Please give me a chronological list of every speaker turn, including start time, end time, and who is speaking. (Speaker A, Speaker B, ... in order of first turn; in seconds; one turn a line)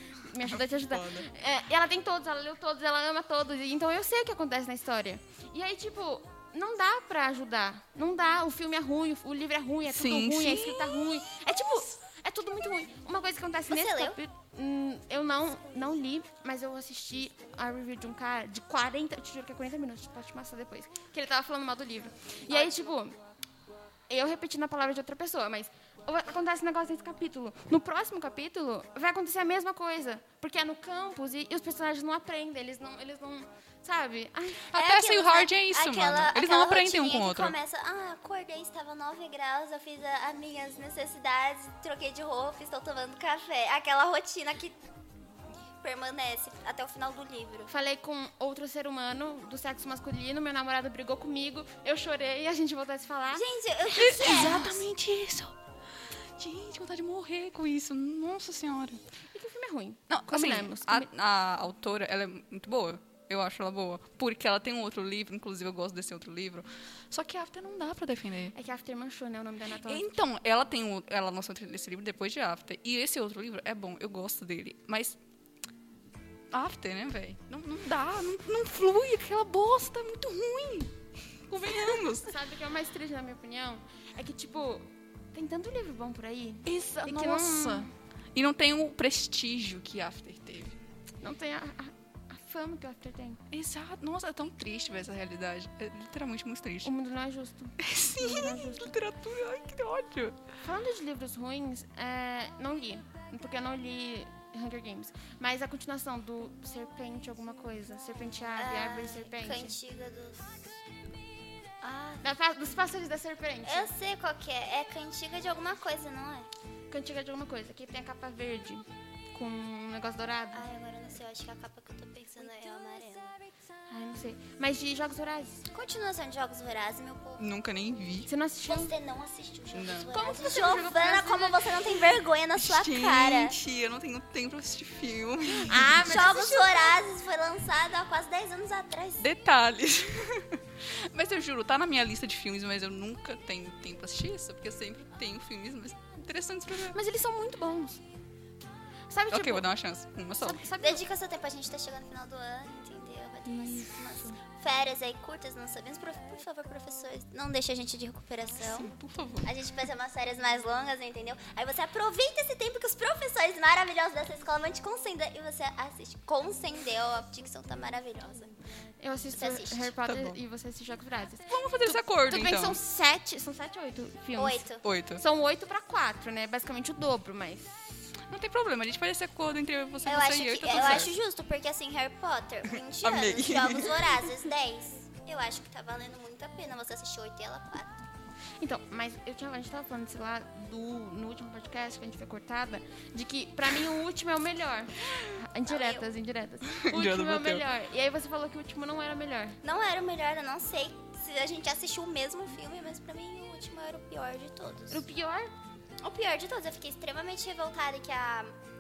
Speaker A: 0.2-23.2
Speaker B: 0.4-1.3
Speaker B: 9.9-11.2
Speaker C: 13.7-14.2
Speaker C: 22.5-22.9
Speaker A: 24.1-34.7
Speaker B: 34.7-37.5
Speaker C: 34.7-44.8
Speaker C: 45.8-47.7
Speaker A: 47.7-54.8
Speaker C: 53.3-54.8
Speaker B: 54.0-55.6
Speaker B: 56.4-59.0
Speaker A: 59.3-61.1
Speaker B: 60.1-68.5
Speaker A: 68.5-70.1
Speaker B: 69.8-75.2
Speaker B: 76.5-81.0
Speaker B: 81.5-82.3
Speaker A: 81.7-87.9
Speaker B: 86.7-90.8
Speaker A: 91.2-93.4
Speaker B: 93.5-96.9
Speaker A: 96.8-99.0
Speaker B: 97.8-100.4
Speaker A: 100.6-109.8
Speaker C: 108.6-110.7
Speaker C: 111.8-112.2
Speaker A: 112.2-113.9
Speaker C: 113.7-116.5
Speaker A: 116.9-120.6
Speaker C: 120.5-123.3
Speaker A: 123.9-125.7
Speaker C: 125.7-127.4
Speaker B: 127.4-128.3
Speaker A: 128.3-128.9
Speaker C: 128.7-133.6
Speaker B: 129.7-130.1
Speaker A: 130.1-131.8
Speaker B: 132.6-136.7
Speaker A: 135.7-136.6
Speaker C: 136.0-139.2
Speaker B: 139.2-147.0
Speaker A: 146.9-148.0
Speaker A: 149.1-149.7
Speaker B: 149.3-150.6
Speaker A: 150.4-151.0
Speaker C: 150.8-158.9
Speaker B: 158.6-159.5
Speaker C: 159.4-168.5
Speaker A: 169.0-178.1
Speaker C: 169.3-169.9
Speaker B: 170.1-170.4
Speaker B: 171.5-172.8
Speaker C: 174.4-174.8
Speaker B: 174.8-175.2
Speaker B: 178.3-181.2
Speaker C: 180.1-188.0
Speaker B: 182.7-184.1
Speaker A: 188.6-199.6
Speaker C: 195.7-196.1
Speaker B: 196.7-197.7
Speaker C: 199.6-205.0
Speaker A: 204.9-205.5
Speaker C: 206.0-208.6